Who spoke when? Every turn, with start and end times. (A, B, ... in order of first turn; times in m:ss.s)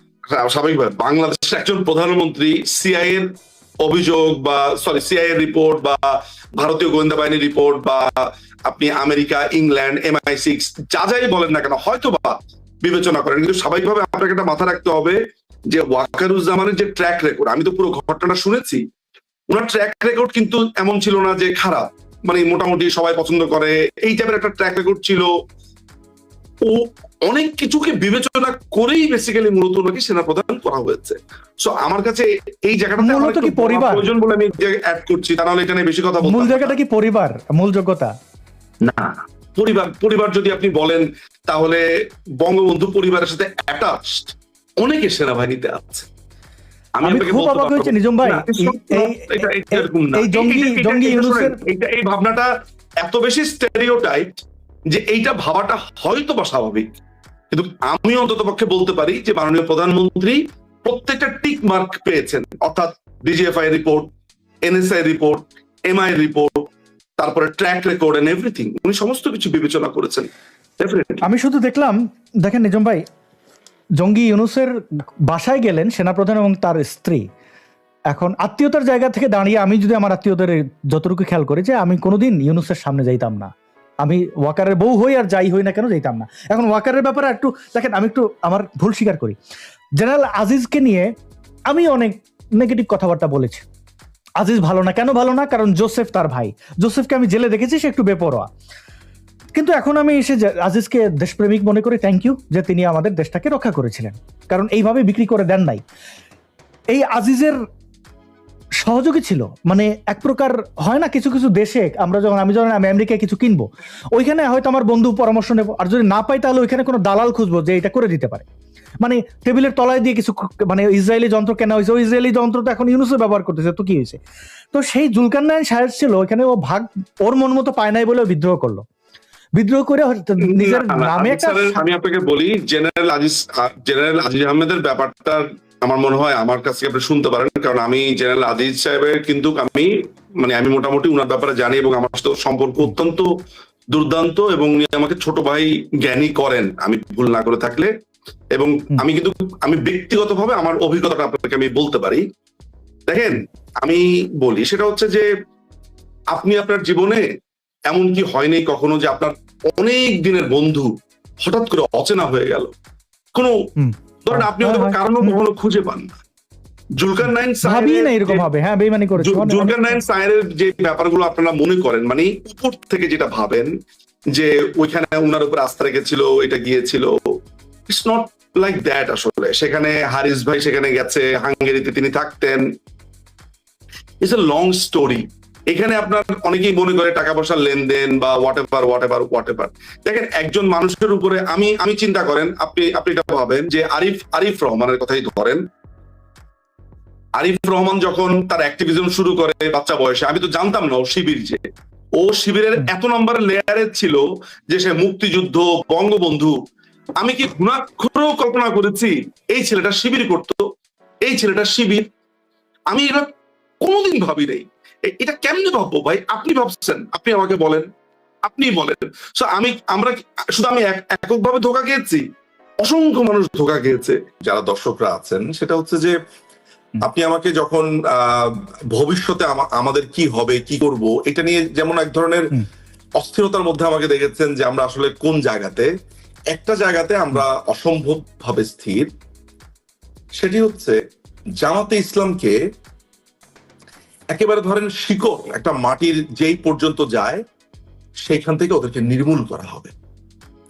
0:00.3-0:03.3 A
0:03.8-0:15.2 A
0:15.7-0:18.8 A
0:19.5-0:25.3 A
0:26.7-0:36.8 A
0:33.0-0:34.1 B
0:36.2-0:38.1 B
0:38.9-0:41.8 A
0:42.4-0:46.1 A
0:47.0-0:52.5 A
0:47.0-0:51.6 B
0:53.0-0:56.9 A
0:57.5-1:04.1 A
1:04.6-1:06.6 A
1:07.2-1:11.2 A
1:11.2-1:13.0 B
1:14.0-1:14.7 B
1:15.3-1:17.2 B
1:18.1-1:23.5 B
1:24.0-1:29.4 B
1:30.0-1:31.1 B
1:31.7-1:33.7 B
1:34.4-1:38.5 B
1:39.5-1:45.8 B
1:46.9-1:47.6 B
1:48.8-1:58.4 B
1:59.0-2:04.2 B
2:04.7-2:08.8 B
2:09.6-2:11.8 B
2:10.4-2:23.3 A
2:23.9-2:27.9 A
2:28.6-2:32.2 A
2:33.1-2:35.3 A
2:36.3-2:37.2 A
2:37.9-2:40.9 A
2:41.4-2:42.7 A
2:43.8-2:45.4 B
2:44.2-2:46.1 A
2:47.0-2:48.4 A
2:47.6-2:50.0 B
2:49.2-2:53.7 A
2:54.3-2:57.2 A
2:57.9-3:02.6 A
3:04.2-3:15.6 A
3:17.4-3:21.6 A
3:22.2-3:26.6 A
3:27.2-3:30.6 A
3:31.3-3:32.0 A
3:32.9-3:33.3 A
3:33.8-3:37.9 A
3:38.5-3:42.2 A
3:42.8-3:46.2 A
3:47.0-3:52.6 A
3:53.2-3:55.9 A
3:56.5-3:59.1 A
4:00.4-4:01.0 A
4:01.6-4:02.6 A
4:04.3-4:07.4 A
4:08.3-4:09.9 A